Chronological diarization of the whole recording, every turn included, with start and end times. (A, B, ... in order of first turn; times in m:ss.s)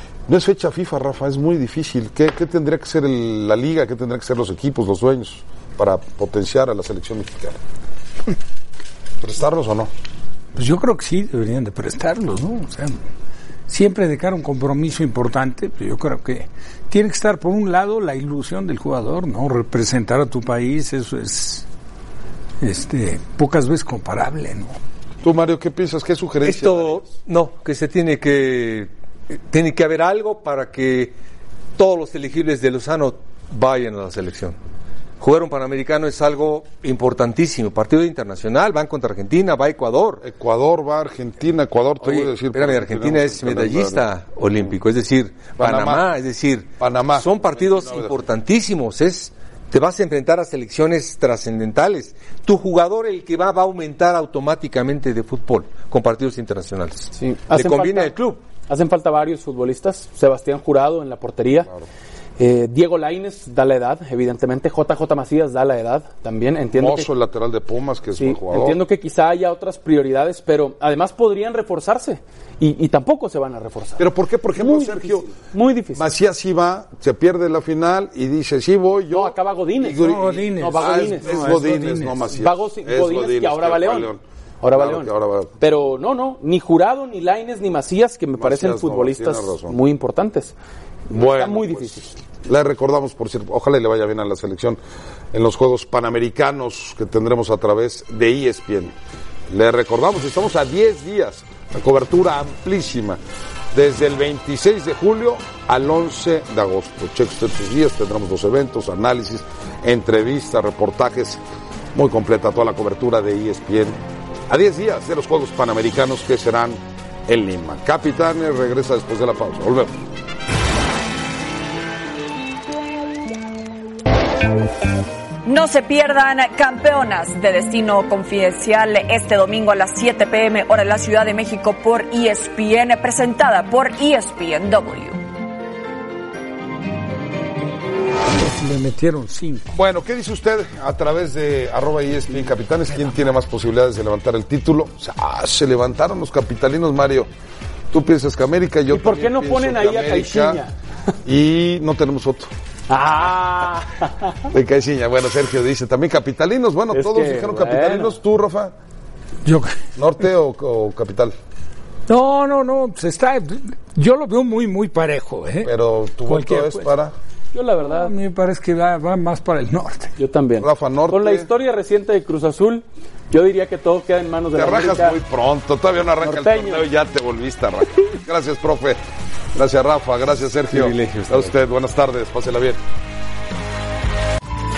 0:00.3-0:07.6 A
0:09.2-0:09.9 A
0:10.5-0:13.0 B
0:13.7-0:21.6 B
0:22.6-0:24.8 B
0:25.2-0:27.0 A
0:26.4-0:28.9 C
0:29.5-0:31.1 C
0:31.8-0:34.6 C
0:35.2-0:40.2 C
0:40.2-0:44.0 A
0:42.0-0:58.4 C
0:45.6-0:46.0 A
0:46.8-0:48.2 A
0:57.2-0:58.1 D
0:58.7-1:01.7 D
1:02.4-1:07.1 D
1:06.7-1:08.8 A
1:08.2-1:16.0 D
1:14.0-1:15.4 A
1:15.9-1:25.5 A
1:19.1-1:21.7 D
1:20.0-1:22.2 B
1:22.2-1:30.5 D
1:28.4-1:29.8 A
1:31.1-1:32.1 D
1:31.1-1:31.9 A
1:32.4-1:34.8 A
1:35.3-1:38.9 A
1:39.5-1:43.2 A
1:43.7-1:51.4 A
1:51.9-1:59.9 A
2:05.4-2:15.2 E
2:18.3-2:19.8 B
2:19.7-2:27.3 A
2:27.9-2:30.6 A
2:28.9-2:30.7 D
2:31.2-2:32.5 A
2:32.9-2:34.4 D
2:34.5-2:38.7 A
2:36.9-2:38.1 D
2:39.4-2:39.8 B
2:40.0-2:41.3 A
2:42.1-2:45.7 B
2:45.6-2:47.1 A
2:46.2-2:46.9 B
2:47.5-2:48.1 D
2:47.9-2:50.1 B
2:50.2-2:55.2 D
2:50.6-2:51.5 A
2:54.5-2:59.0 A
2:56.2-2:56.8 D
2:59.5-3:02.8 A
3:00.7-3:01.5 C